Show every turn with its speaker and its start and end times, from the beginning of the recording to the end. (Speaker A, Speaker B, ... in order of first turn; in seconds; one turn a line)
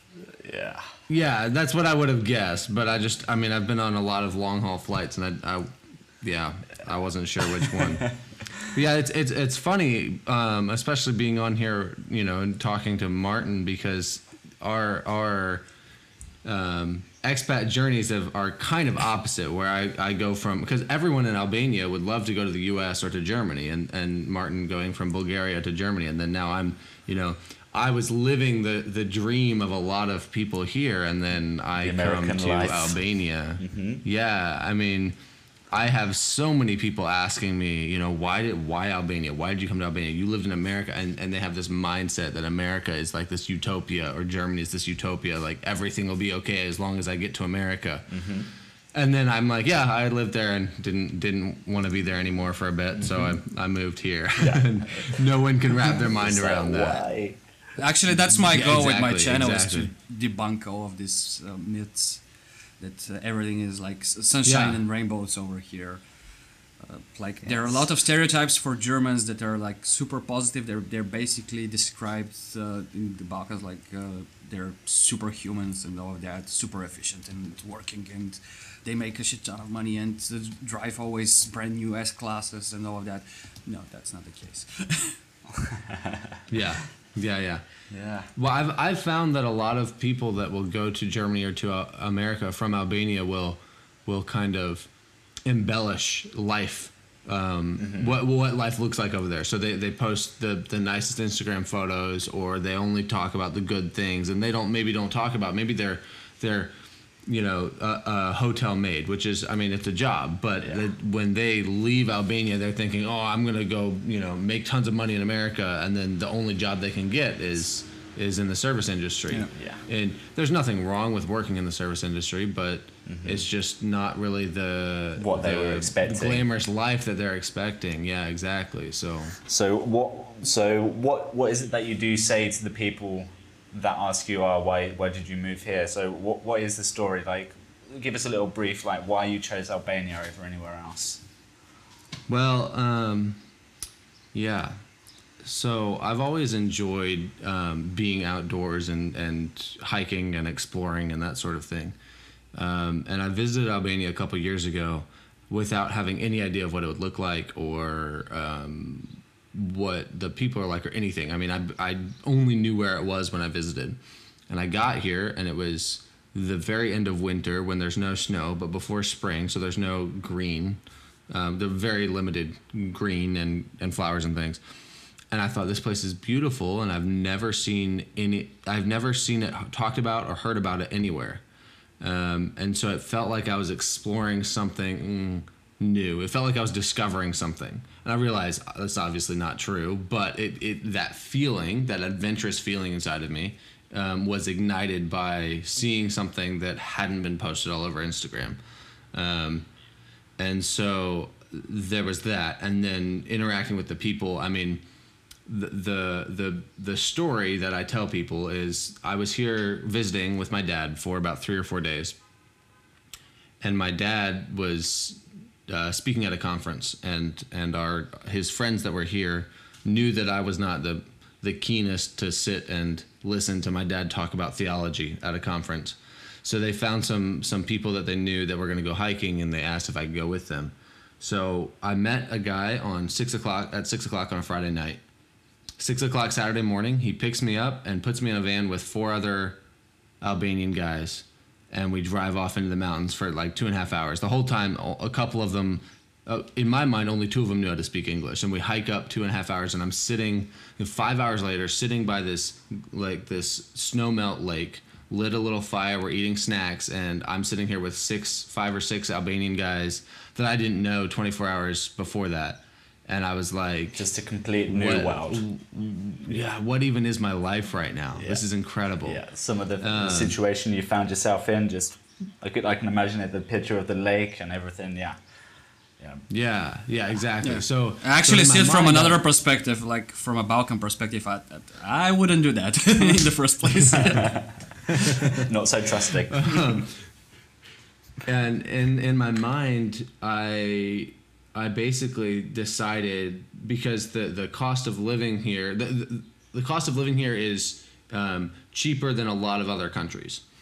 Speaker A: 0.3-0.9
Speaker B: 1.1-5.7
Speaker B: 6.2-8.1
Speaker A: 7.6-8.1
Speaker B: 8.7-15.7
Speaker B: 16.4-35.2
Speaker A: 31.8-33.0
Speaker A: 33.6-34.0
Speaker B: 35.7-48.1
Speaker A: 48.1-48.5
Speaker B: 48.9-57.0
Speaker A: 53.0-53.4
Speaker A: 54.4-55.2
Speaker A: 55.8-57.4
Speaker C: 57.8-62.3
Speaker B: 58.4-59.9
Speaker C: 62.8-66.0
Speaker B: 64.4-64.8
Speaker C: 66.8-85.2
Speaker A: 67.4-67.9
Speaker A: 85.6-86.3
Speaker B: 86.5-87.6
Speaker A: 87.9-88.3
Speaker B: 88.4-94.9
Speaker B: 95.5-106.7
Speaker A: 97.8-98.1
Speaker B: 107.3-129.3
Speaker A: 110.6-110.9
Speaker A: 119.5-119.8
Speaker A: 123.1-123.5
Speaker A: 125.2-126.5
Speaker A: 129.4-141.2
Speaker B: 142.3-143.4
Speaker B: 144.3-144.8
Speaker B: 145.4-152.0
Speaker B: 152.5-164.0
Speaker B: 164.5-174.6
Speaker B: 175.3-181.4
Speaker B: 182.0-198.6
Speaker B: 199.1-199.7
Speaker B: 200.4-204.8
Speaker B: 205.5-212.2
Speaker B: 213.6-235.0
Speaker B: 235.8-239.6
Speaker B: 240.2-264.1
Speaker A: 263.9-265.4
Speaker B: 264.7-269.2
Speaker A: 268.1-268.4
Speaker A: 269.0-275.2
Speaker B: 269.8-270.4
Speaker A: 276.0-276.3
Speaker B: 276.3-279.2
Speaker C: 277.4-285.1
Speaker A: 284.1-284.4
Speaker A: 285.3-286.8
Speaker B: 286.3-287.0
Speaker B: 288.3-300.4